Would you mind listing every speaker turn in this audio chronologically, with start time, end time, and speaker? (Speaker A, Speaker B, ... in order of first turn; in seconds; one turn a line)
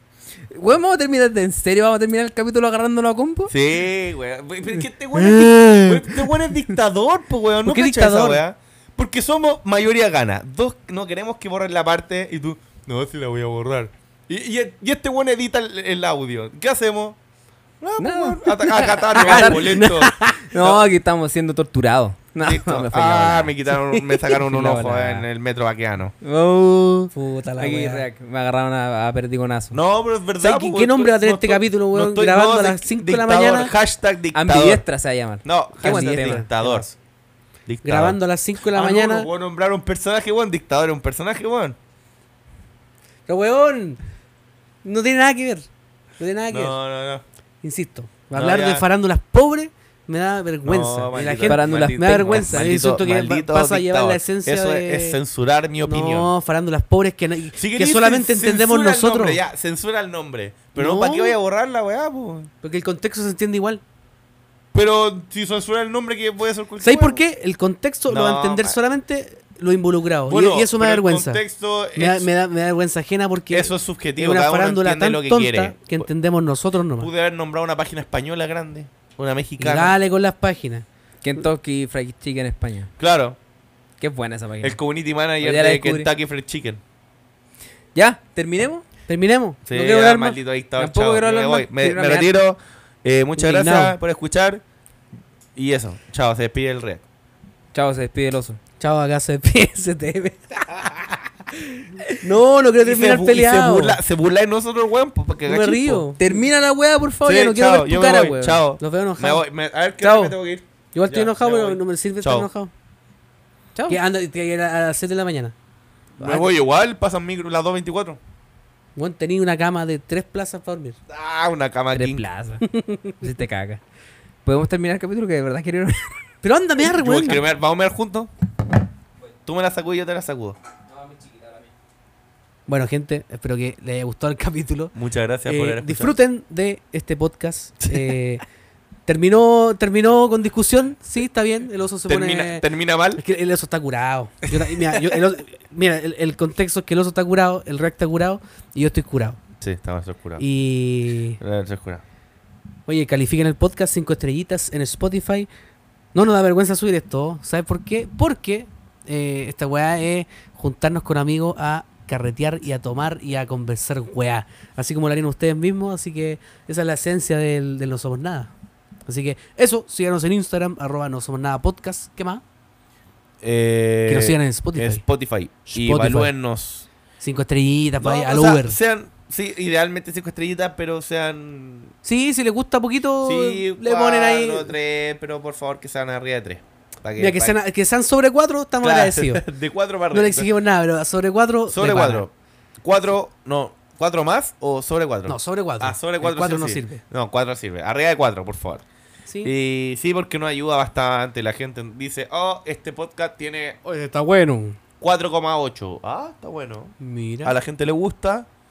Speaker A: 0.5-3.5
Speaker B: 3.5-17.2
Speaker C: 5.2-6.3
Speaker C: 7.6-8.4
Speaker B: 17.8-20.9
Speaker A: 18.0-19.9
Speaker C: 19.1-20.4
Speaker A: 20.5-25.3
Speaker B: 22.4-26.1
Speaker A: 26.2-29.8
Speaker C: 27.1-28.1
Speaker B: 29.7-34.8
Speaker C: 30.4-33.7
Speaker A: 34.3-36.4
Speaker B: 35.4-36.9
Speaker C: 35.8-36.9
Speaker B: 37.6-38.2
Speaker C: 37.8-39.3
Speaker B: 38.7-41.8
Speaker C: 43.3-44.0
Speaker C: 44.8-45.7
Speaker C: 46.2-46.8
Speaker B: 46.5-47.2
Speaker C: 47.6-55.2
Speaker B: 48.3-48.9
Speaker B: 50.6-56.3
Speaker A: 51.4-52.6
Speaker C: 55.9-59.4
Speaker B: 57.6-62.5
Speaker C: 60.7-61.4
Speaker C: 62.6-63.8
Speaker B: 64.7-67.2
Speaker C: 66.8-71.4
Speaker B: 68.1-68.8
Speaker B: 70.3-72.3
Speaker C: 71.9-77.1
Speaker B: 73.5-76.1
Speaker B: 77.0-80.0
Speaker C: 79.6-80.8
Speaker A: 81.2-82.9
Speaker B: 83.0-83.4
Speaker A: 84.0-84.8
Speaker B: 84.6-86.8
Speaker A: 85.4-86.1
Speaker A: 87.9-88.8
Speaker C: 89.1-90.4
Speaker B: 89.7-94.6
Speaker A: 90.8-92.3
Speaker C: 93.4-94.0
Speaker B: 95.5-97.0
Speaker A: 97.7-98.6
Speaker C: 98.8-104.0
Speaker B: 102.8-106.1
Speaker C: 105.5-106.2
Speaker A: 106.2-108.6
Speaker B: 107.2-112.5
Speaker C: 108.8-109.4
Speaker C: 110.0-110.3
Speaker C: 110.9-112.7
Speaker A: 113.7-114.0
Speaker C: 113.9-115.5
Speaker C: 116.2-116.5
Speaker B: 116.2-118.2
Speaker C: 119.0-121.0
Speaker B: 121.1-122.2
Speaker A: 121.9-122.7
Speaker C: 122.7-123.2
Speaker A: 123.2-123.8
Speaker A: 124.4-126.2
Speaker C: 126.4-127.4
Speaker B: 126.8-128.3
Speaker B: 129.4-130.6
Speaker A: 130.9-131.7
Speaker C: 132.7-134.9
Speaker B: 134.9-136.2
Speaker C: 135.4-138.4
Speaker B: 137.8-138.1
Speaker C: 139.1-142.7
Speaker B: 142.1-143.2
Speaker C: 143.2-149.4
Speaker B: 144.5-145.2
Speaker B: 149.6-150.4
Speaker C: 150.4-151.4
Speaker B: 151.4-152.0
Speaker C: 152.9-155.5
Speaker C: 156.1-168.5
Speaker C: 169.1-172.4
Speaker B: 173.4-176.9
Speaker C: 174.1-175.0
Speaker C: 175.7-176.3
Speaker C: 177.2-178.8
Speaker B: 178.0-181.9
Speaker C: 182.1-184.7
Speaker B: 183.2-187.6
Speaker C: 187.2-189.4
Speaker B: 188.8-190.5
Speaker C: 190.1-192.3
Speaker B: 191.7-198.8
Speaker C: 195.3-197.0
Speaker C: 199.3-199.5
Speaker B: 199.4-203.8
Speaker C: 203.8-204.8
Speaker B: 205.0-208.5
Speaker C: 207.0-207.6